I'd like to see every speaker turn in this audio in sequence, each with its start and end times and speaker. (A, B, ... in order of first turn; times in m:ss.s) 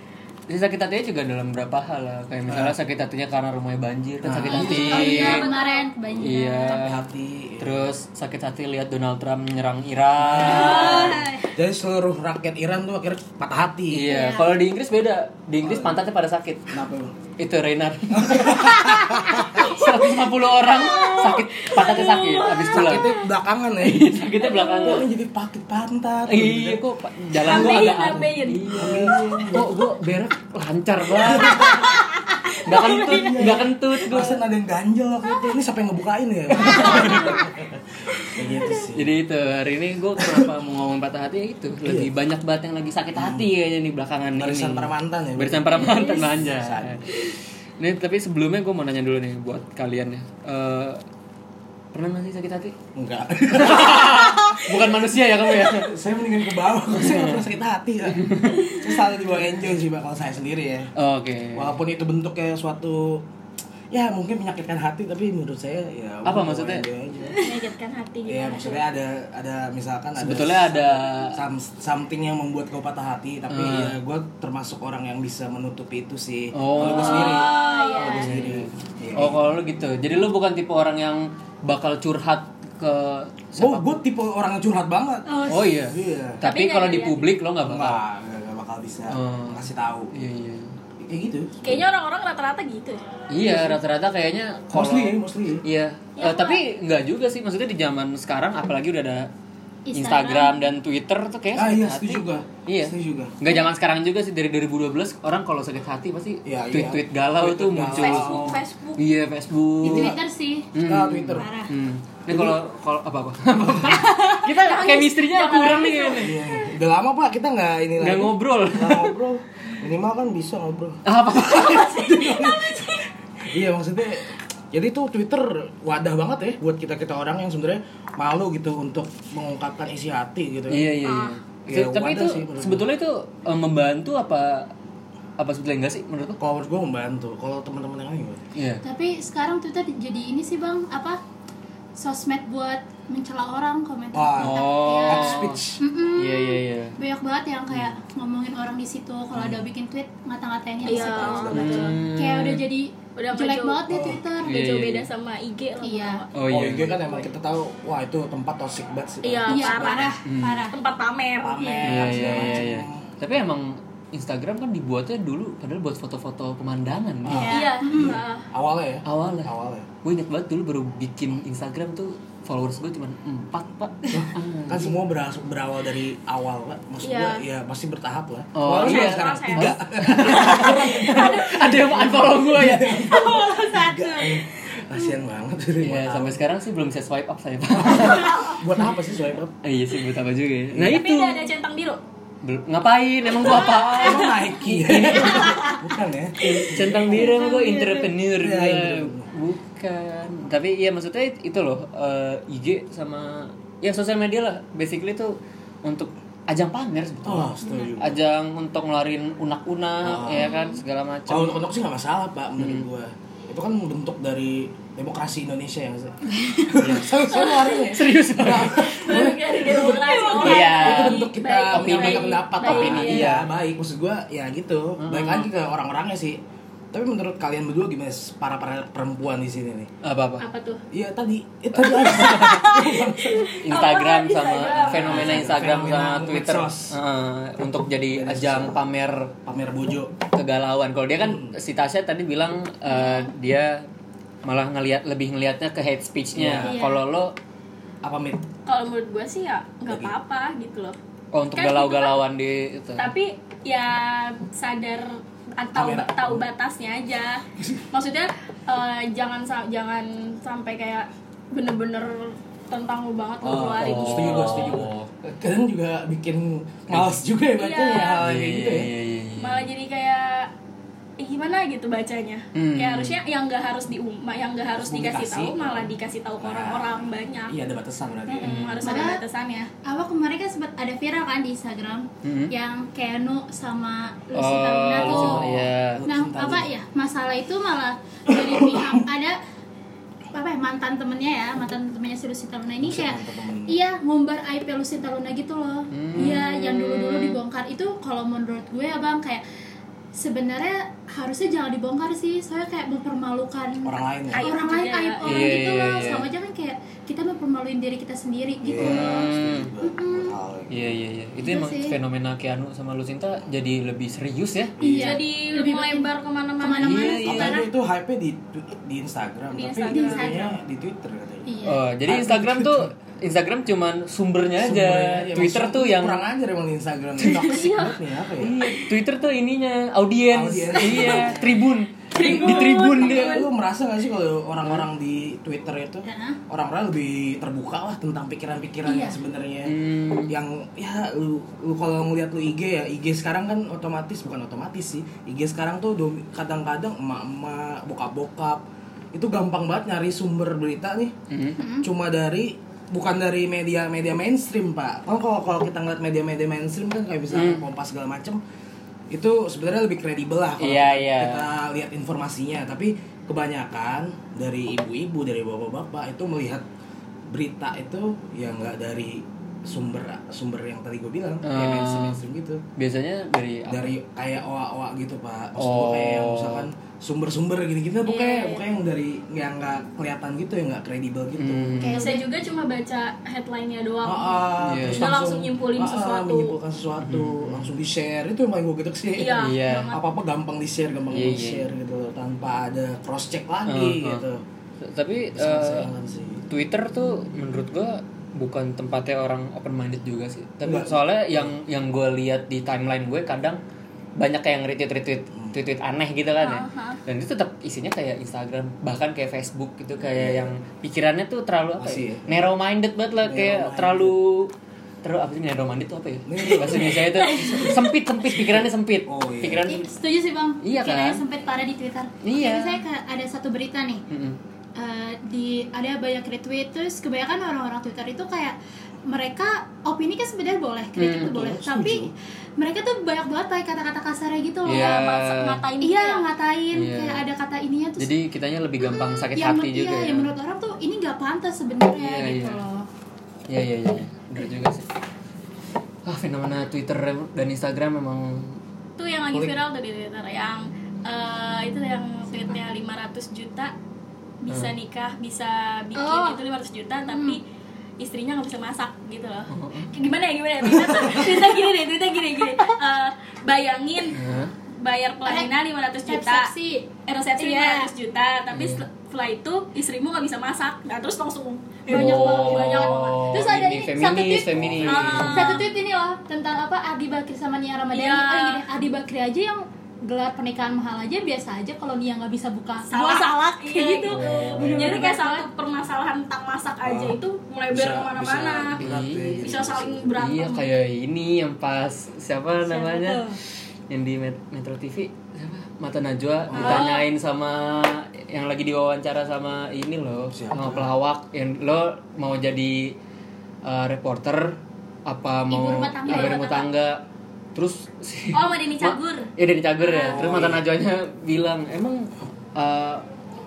0:00.5-0:05.5 A
0:02.5-0:02.7 B
0:04.2-0:05.4 B
0:04.5-0:05.9 C
0:04.5-0:06.8 D
0:06.2-0:07.1 A
0:06.7-0:07.9 B
0:07.6-0:11.2 A
0:10.2-0:14.1 B
0:10.4-0:11.5 D
0:10.5-0:11.1 C
0:13.9-0:16.7 A
0:14.0-0:14.5 D
0:15.6-0:16.0 B
0:16.7-0:17.1 B
0:17.4-0:23.2 A
0:18.1-0:19.7 B
0:20.6-0:23.0 C
0:22.7-0:26.8 B
0:23.8-0:25.0 A
0:24.5-0:24.9 C
0:26.3-0:32.0 A
0:27.3-0:28.2 B
0:27.4-0:29.0 C
0:28.7-0:29.9 B
0:31.2-0:32.0 B
0:32.6-0:34.4 A
0:32.7-0:39.1 B
0:32.9-0:33.4 D
0:36.5-0:37.4 A
0:38.9-0:47.1 A
0:40.2-0:40.5 B
0:41.8-0:42.1 B
0:43.1-0:43.4 B
0:44.4-0:47.1 B
0:47.8-0:51.0 A
0:51.9-0:52.8 A
0:52.9-1:00.9 B
0:53.5-0:55.9 A
0:56.9-0:57.4 A
0:58.1-0:58.8 A
1:01.0-1:01.8 A
1:01.5-1:03.2 B
1:03.9-1:07.4 B
1:06.2-1:06.8 A
1:07.3-1:08.8 C
1:08.2-1:19.5 B
1:10.2-1:11.4 A
1:13.5-1:13.9 A
1:16.5-1:24.0 A
1:16.8-1:18.3 C
1:17.7-1:18.0 D
1:23.6-1:26.4 B
1:25.3-1:25.7 D
1:25.5-1:28.0 A
1:26.4-1:27.3 C
1:27.6-1:30.2 B
1:29.1-1:30.7 A
1:31.0-1:31.8 B
1:31.6-1:33.0 C
1:33.3-1:39.3 A
1:33.4-1:33.8 B
1:34.7-1:35.6 B
1:36.2-1:36.6 C
1:39.8-1:40.6 D
1:39.9-1:50.1 A
1:41.5-1:43.4 B
1:46.4-1:48.6 B
1:48.0-1:49.0 C
1:49.8-1:50.7 D
1:49.8-1:50.2 B
1:50.7-1:56.4 A
1:50.8-1:51.6 B
1:51.3-1:51.7 D
1:52.3-1:52.6 B
1:53.6-1:54.1 B
1:54.4-1:56.5 C
1:56.1-2:10.9 B
1:58.0-1:59.1 A
2:01.0-2:02.0 A
2:01.6-2:02.8 C
2:10.7-2:14.7 A
2:11.0-2:11.4 D
2:11.7-2:12.9 B
2:15.4-2:16.4 A
2:16.4-2:18.4 B
2:18.5-2:18.8 A
2:18.8-2:21.2 D
2:22.0-2:34.5 D
2:24.1-2:25.8 B
2:24.4-2:25.6 A
2:26.2-2:27.0 A
2:29.3-2:29.6 B
2:30.8-2:31.9 C
2:30.8-2:32.0 B
2:31.5-2:32.6 A
2:33.2-2:33.9 C
2:33.9-2:34.2 B
2:34.4-2:37.3 C
2:34.4-2:35.1 A
2:35.8-2:36.2 D
2:36.3-2:36.8 A
2:36.5-2:40.1 B
2:39.2-2:40.2 C
2:39.5-2:40.8 D
2:40.2-2:40.7 A
2:40.7-2:41.7 C
2:41.4-2:43.0 B
2:41.6-2:42.6 D
2:41.8-2:47.5 A
2:47.2-2:49.9 B
2:47.3-2:48.2 D
2:47.5-2:48.4 C
2:49.0-2:49.5 A
2:50.0-2:55.0 A
2:54.1-3:06.4 B
2:57.0-2:57.4 C
2:58.5-3:03.1 A
2:58.7-2:59.7 C
3:03.1-3:04.4 D
3:05.8-3:09.0 A
3:07.7-3:09.6 B
3:08.1-3:08.6 C
3:09.6-3:11.5 A
3:10.7-3:11.0 B
3:10.9-3:12.0 C
3:12.4-3:15.7 A
3:13.4-3:17.4 B
3:16.4-3:31.7 A
3:17.2-3:18.1 D
3:18.3-3:19.3 B
3:27.2-3:28.2 B
3:27.6-3:27.9 D
3:30.0-3:30.5 B
3:30.4-3:30.8 D
3:31.3-3:46.4 B
3:32.6-3:32.9 A
3:36.3-3:36.7 D
3:37.3-3:37.8 C
3:37.8-3:39.2 A
3:38.7-3:43.3 C
3:39.9-3:40.5 D
3:40.4-3:43.5 A
3:45.0-3:45.5 A
3:46.9-3:49.9 B
3:50.0-3:50.5 A
3:50.4-3:50.8 C
3:50.9-3:53.6 B
3:51.9-3:52.5 A
3:52.2-3:55.6 C
3:53.6-3:59.3 A
3:54.8-3:56.9 B
3:58.1-3:58.8 B
3:59.4-4:00.1 B
4:00.3-4:03.8 A
4:01.2-4:01.5 B
4:02.9-4:03.3 D
4:04.4-4:07.3 A
4:06.3-4:06.8 B
4:06.6-4:07.0 D
4:08.0-4:08.4 B
4:08.6-4:11.0 C
4:09.9-4:10.1 B
4:11.3-4:13.1 A
4:11.5-4:12.2 C
4:13.0-4:24.8 C
4:15.7-4:16.4 B
4:23.4-4:28.9 B
4:23.8-4:25.1 A
4:26.9-4:27.2 A
4:27.6-4:28.2 C
4:28.2-4:29.7 A
4:29.4-4:30.5 C
4:31.2-4:37.6 C
4:32.5-4:33.2 A
4:34.7-4:36.9 B
4:37.5-4:38.8 B
4:38.3-4:39.7 C
4:38.4-4:39.1 A
4:38.8-4:39.2 D
4:39.8-4:45.4 D
4:42.2-4:42.5 A
4:44.3-4:46.0 A
4:44.9-4:46.7 B
4:46.0-4:49.4 D
4:48.3-4:49.0 B
4:50.3-4:59.4 D
4:52.8-4:53.8 B
4:55.9-4:56.4 A
4:56.4-4:57.4 C
5:00.2-5:09.3 D
5:03.8-5:04.6 B
5:04.3-5:05.6 C
5:05.2-5:06.3 A
5:08.6-5:10.9 B
5:08.8-5:09.7 A
5:09.8-5:10.3 D
5:10.7-5:15.1 A
5:11.4-5:12.0 D
5:14.8-5:17.7 D
5:14.8-5:15.1 B
5:14.8-5:17.2 C
5:16.8-5:17.6 A
5:17.1-5:22.9 B
5:19.5-5:20.3 C
5:19.9-5:20.6 D
5:21.5-5:21.8 D
5:21.6-5:26.2 A
5:24.6-5:28.6 B
5:27.2-5:28.0 C
5:28.4-5:33.4 A
5:30.3-5:31.6 B
5:30.8-5:31.2 C
5:32.1-5:33.5 C
5:32.2-5:48.6 B
5:36.0-5:36.4 D
5:38.8-5:39.2 D
5:39.6-5:40.4 A
5:49.1-5:51.1 B
5:51.3-5:51.6 A
5:51.6-5:51.9 D
5:51.8-5:58.4 B
5:57.3-5:57.7 A
5:59.1-6:06.6 B
6:00.6-6:01.5 A
6:07.3-6:12.6 B
6:11.4-6:12.2 A
6:12.8-6:13.9 A
6:13.7-6:21.8 B
6:15.6-6:16.7 A
6:18.0-6:18.6 C
6:21.4-6:22.1 A
6:21.8-6:22.3 D
6:21.9-6:26.6 C
6:24.0-6:34.4 B
6:24.6-6:25.1 A
6:27.0-6:27.7 A
6:29.2-6:30.0 C
6:29.4-6:29.9 A
6:31.1-6:31.7 A
6:33.7-6:34.2 A
6:34.8-6:35.9 A
6:35.3-6:36.4 B
6:36.5-6:43.6 A
6:40.6-6:41.5 B
6:44.2-6:54.5 A
6:45.3-6:45.6 B
6:46.4-6:47.0 C
6:50.1-6:50.5 B
6:51.8-6:52.3 B
6:53.2-6:54.2 B
6:55.0-6:59.9 A
6:56.2-6:59.7 B
6:59.6-7:04.0 D
7:00.6-7:01.2 A
7:02.2-7:02.8 A
7:04.1-7:04.4 A
7:04.8-7:15.1 D
7:11.0-7:11.4 A
7:11.3-7:12.1 B
7:14.6-7:15.6 A
7:14.7-7:16.3 C
7:15.8-7:18.1 D
7:16.7-7:17.2 A
7:18.0-7:20.3 A
7:18.8-7:22.9 D
7:22.0-7:22.6 A
7:23.5-7:24.8 A
7:26.0-7:28.6 A
7:29.0-7:33.7 C
7:34.4-7:37.4 C
7:34.5-7:34.7 A
7:36.0-7:36.4 D
7:37.1-7:37.4 D
7:38.0-7:44.2 C
7:39.5-7:39.9 A
7:40.6-7:41.2 B
7:44.1-7:44.5 A
7:44.8-7:46.5 C
7:46.1-7:47.9 D
7:47.0-7:53.3 C
7:48.5-7:48.8 A
7:51.9-7:55.6 A
7:51.9-8:05.5 D
7:54.5-7:55.4 B
7:54.8-7:55.7 C
7:57.9-7:58.6 C
8:02.9-8:08.8 C
8:04.1-8:05.1 A
8:06.8-8:07.2 B
8:07.7-8:10.2 B
8:08.8-8:09.5 A
8:09.4-8:10.7 C
8:10.2-8:13.2 A
8:12.7-8:13.4 D
8:13.9-8:23.0 A
8:16.5-8:16.8 B
8:16.5-8:17.0 C
8:20.3-8:20.9 B
8:23.6-8:27.0 A
8:25.5-8:26.6 D
8:26.0-8:26.5 C
8:27.5-8:33.0 A
8:28.3-8:30.3 C
8:30.0-8:30.6 B